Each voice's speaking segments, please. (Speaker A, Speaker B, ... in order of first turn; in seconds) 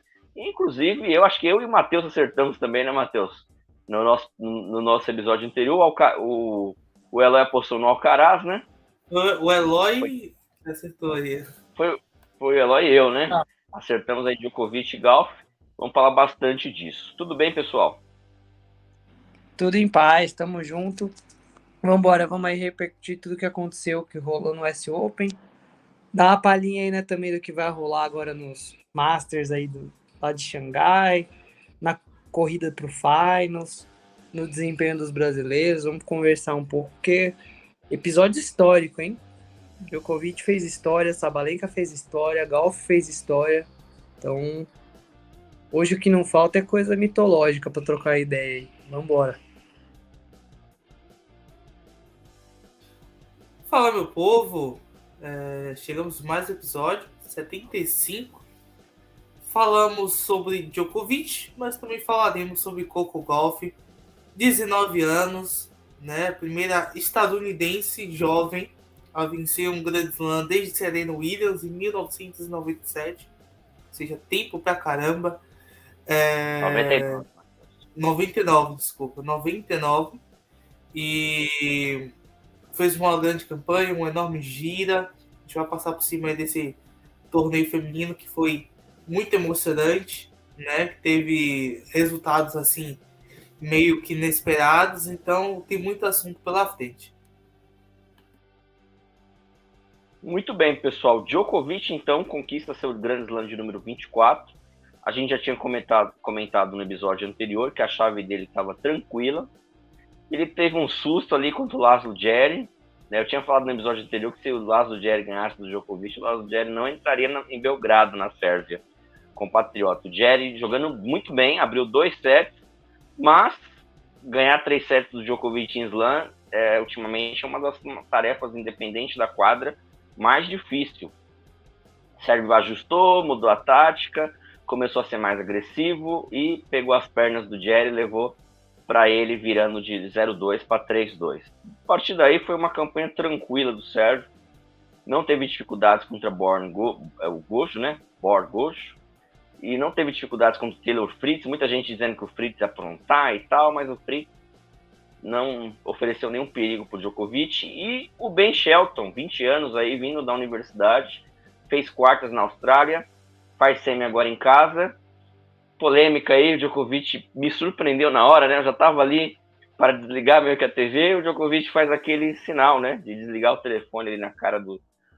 Speaker A: 0.3-8.7, 11.8-18.0, 76.6-77.6, 100.2-109.5, 110.3-118.8, 119.3-122.6, 123.2-123.7, 124.2-131.1, 132.2-144.3, 145.1-149.0, 149.6-154.3, 155.2-165.0, 165.8-174.8
Speaker B: 9.1-11.4, 53.7-58.4, 59.5-63.8, 64.3-73.3, 73.9-75.4, 76.1-77.2, 78.0-80.2, 80.9-82.1, 82.7-86.8, 87.3-93.0, 93.6-97.1
Speaker C: 19.6-21.1, 21.8-25.3, 26.1-31.3, 31.8-37.3, 37.9-39.2, 39.9-43.7, 44.2-44.7, 45.7-49.4